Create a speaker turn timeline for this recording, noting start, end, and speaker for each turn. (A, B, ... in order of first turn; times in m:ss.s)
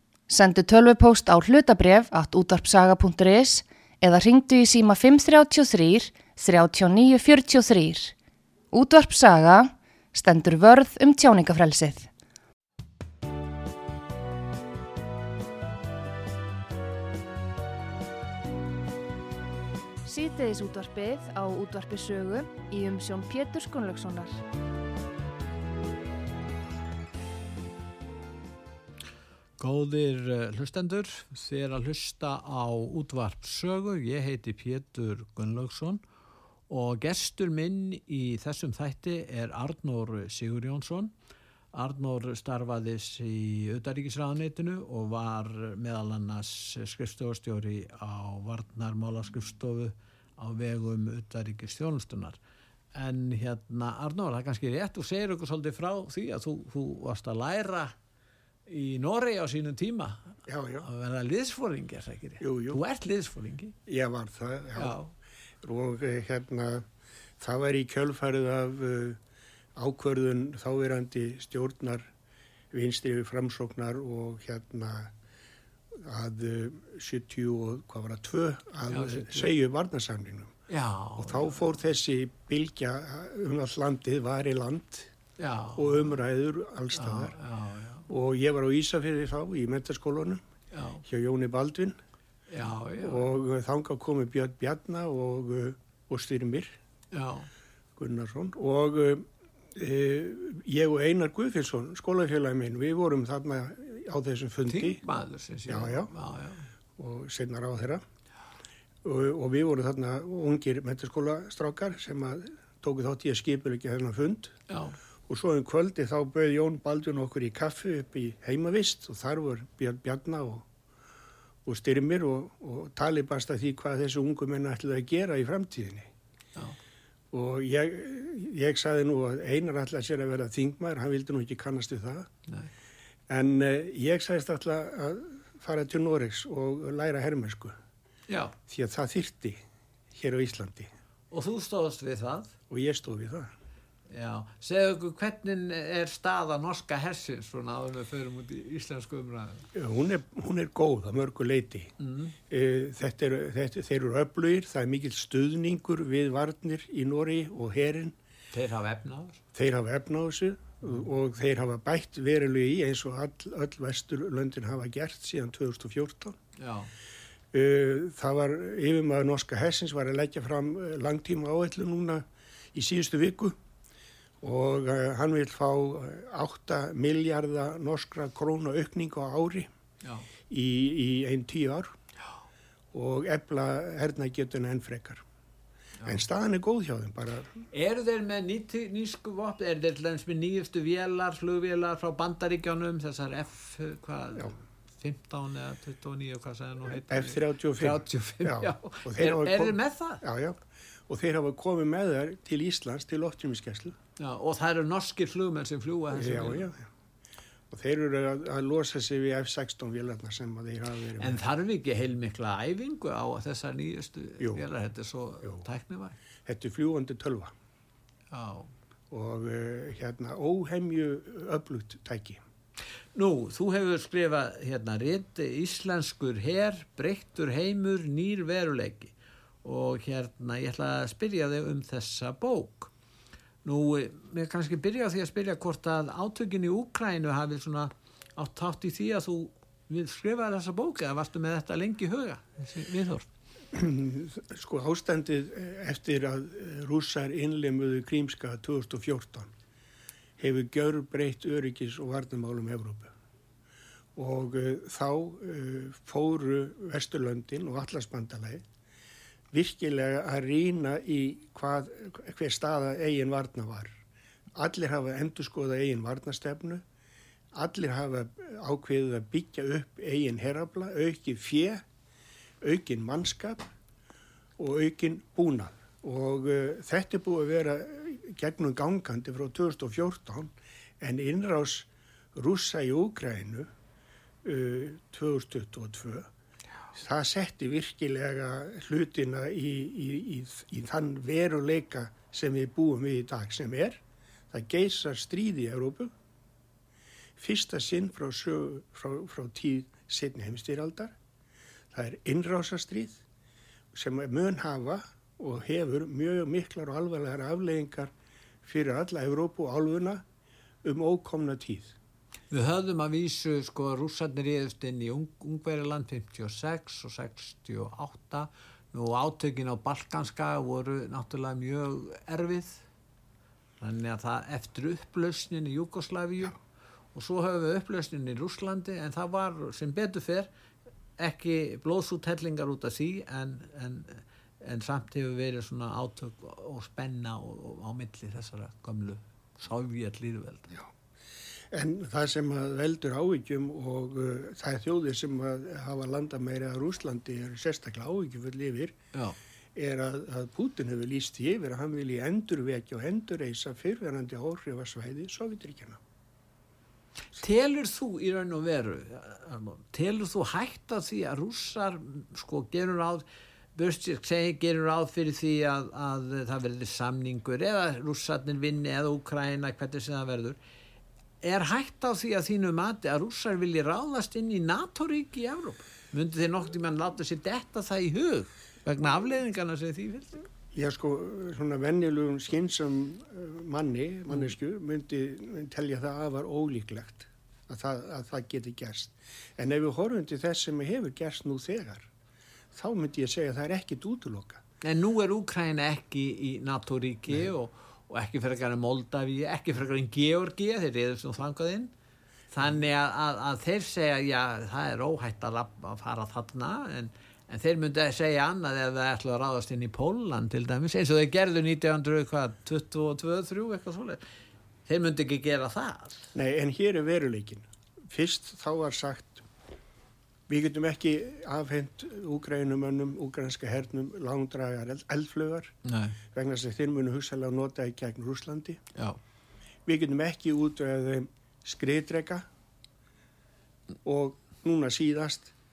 0:00.3-0:08.1 A
0:08.7-0:12.1 A
0:20.0-0:24.4 A
0:29.6-0:36.0 B
0:36.7-0:41.1 B
0:41.7-0:52.4 B
0:52.9-0:57.9 B
0:58.7-1:03.7 B
1:00.5-1:00.9 C
1:02.4-1:02.8 C
1:03.9-1:05.0 C
1:04.8-1:05.1 B
1:05.6-1:06.9 C
1:07.4-1:09.2 C
1:09.8-1:12.1 C
1:12.7-1:15.1 C
1:15.9-1:20.5 C
1:18.9-1:19.5 B
1:20.7-1:21.6 B
1:21.2-1:25.1 C
1:25.4-1:26.2 B
1:25.8-1:27.4 C
1:26.9-1:28.0 B
1:28.1-1:30.4 C
1:30.7-1:31.0 B
1:31.0-1:32.0 C
1:32.5-1:33.3 B
1:33.0-1:36.8 C
1:37.1-1:37.5 B
1:38.0-1:45.0 C
1:44.7-1:46.7 B
1:45.7-1:46.1 C
1:47.0-1:48.0 C
1:49.0-1:54.6 C
1:54.7-1:55.0 B
1:55.3-2:00.7 C
2:01.6-2:06.1 C
2:07.3-2:12.3 C
2:13.3-2:17.8 C
2:18.3-2:18.5 B
2:18.7-2:20.9 C
2:21.3-2:22.5 B
2:22.7-2:23.5 C
2:24.1-2:29.7 B
2:29.7-2:31.9 C
2:32.0-2:32.3 B
2:32.5-2:38.2 C
2:38.5-2:39.4 B
2:39.5-2:46.4 C
2:46.6-2:46.9 B
2:47.5-2:53.6 C
2:54.4-2:59.7 C
3:00.5-3:01.9 C
3:02.9-3:05.2 C
3:06.0-3:07.6 C
3:07.7-3:20.2 B
3:17.1-3:24.0 C
3:24.2-3:26.7 B
3:26.1-3:26.9 C
3:27.7-3:31.4 C
3:31.2-3:36.2 B
3:34.4-3:34.6 C
3:36.4-3:37.5 C
3:38.3-3:38.7 B
3:39.1-3:42.4 C
3:43.1-3:52.9 B
3:53.6-4:03.3 B
4:03.7-4:09.5 C
4:10.4-4:13.1 C
4:14.2-4:18.6 C
4:19.5-4:24.0 C
4:24.5-4:26.8 C
4:27.5-4:31.8 C
4:32.6-4:33.7 C
4:34.6-4:43.7 C
4:44.4-4:46.3 C
4:46.9-4:56.1 C
4:57.4-5:01.1 C
5:01.9-5:03.2 C
5:03.9-5:08.1 C
5:08.6-5:10.2 C
5:10.8-5:11.9 C
5:12.5-5:22.8 B
5:23.8-5:26.6 B
5:27.1-5:30.5 B
5:31.2-5:40.7 B
5:41.7-5:48.9 C
5:49.7-5:56.0 C
5:57.3-6:03.2 B
6:03.8-6:10.6 B
6:11.4-6:20.4 B
6:20.7-6:32.1 C
6:32.7-6:34.6 C
6:34.8-6:41.9 B
6:42.5-6:54.2 B
6:54.8-6:56.3 B
6:56.3-6:59.4 C
7:00.5-7:05.7 C
7:05.8-7:06.2 B
7:06.3-7:08.8 C
7:09.8-7:12.5 C
7:14.0-7:15.5 C